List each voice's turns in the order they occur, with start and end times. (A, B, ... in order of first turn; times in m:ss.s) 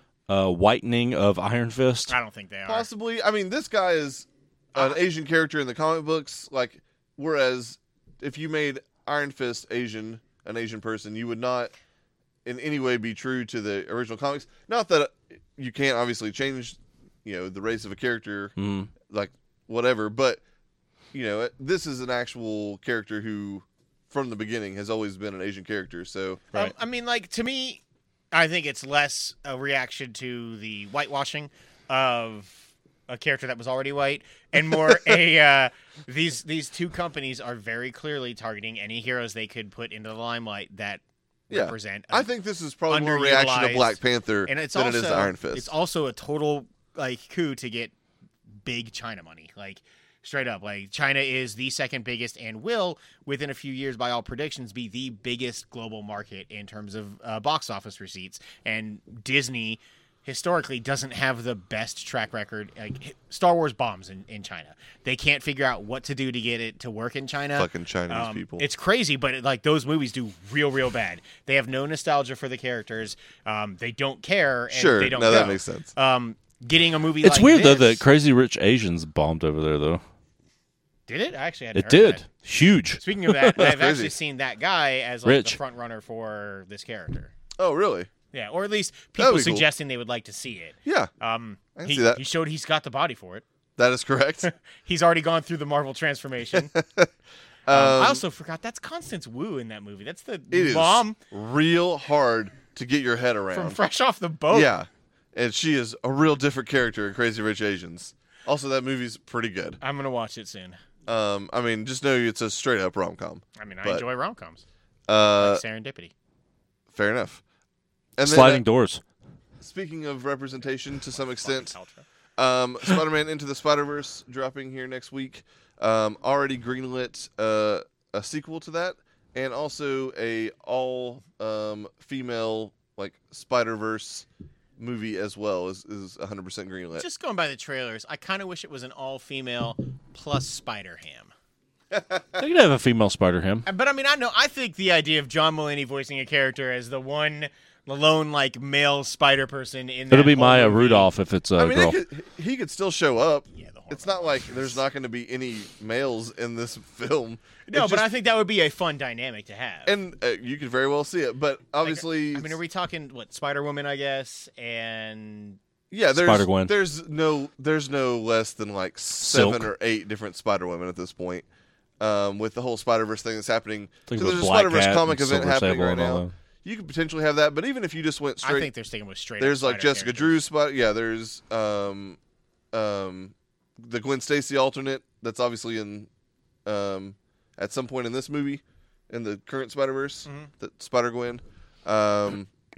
0:00.3-0:02.1 A
0:02.1-0:02.9 B
0:02.7-0:11.7 C
0:12.4-0:20.4 C
0:18.6-0:18.9 A
0:21.1-0:26.4 C
0:26.5-0:42.3 B
0:41.5-0:45.7 C
0:42.9-0:48.0 B
0:48.6-1:18.0 B
1:07.6-1:08.6 C
1:14.7-1:15.9 C
1:17.2-1:20.0 A
1:21.1-1:22.2 B
1:21.8-1:23.8 A
1:23.0-1:27.3 B
1:23.6-1:24.2 C
1:25.2-1:25.6 A
1:27.6-1:28.1 C
1:28.3-1:33.4 B
1:29.2-1:29.7 C
1:30.8-1:31.1 C
1:31.8-1:32.2 C
1:33.8-1:34.5 C
1:34.4-1:36.7 B
1:36.5-1:37.1 C
1:37.7-1:38.2 C
1:37.7-1:41.2 B
1:40.5-1:43.8 C
1:43.5-1:44.7 B
1:44.5-1:49.8 C
1:49.8-1:50.8 B
1:51.1-1:54.0 C
1:53.6-1:54.6 B
1:55.1-1:55.6 C
1:55.4-1:56.1 B
1:56.9-1:57.4 C
1:58.2-1:58.6 C
1:58.2-1:59.0 A
1:59.6-2:01.7 C
2:01.1-2:02.0 B
2:02.4-2:17.0 C
2:16.9-2:21.3 B
2:21.9-2:22.4 C
2:22.4-2:23.7 A
2:23.7-2:31.1 B
2:30.1-2:32.0 A
2:31.6-2:38.1 C
2:33.5-2:34.8 B
2:37.7-2:40.0 B
2:39.9-2:42.6 C
2:41.8-2:45.6 B
2:45.9-2:51.5 C
2:46.1-2:46.7 A
2:49.2-2:49.7 A
2:52.0-2:58.7 C
2:54.1-2:56.3 A
2:58.4-3:00.4 B
2:59.4-3:02.2 C
3:02.7-3:06.1 C
3:06.7-3:12.5 C
3:10.3-3:10.5 B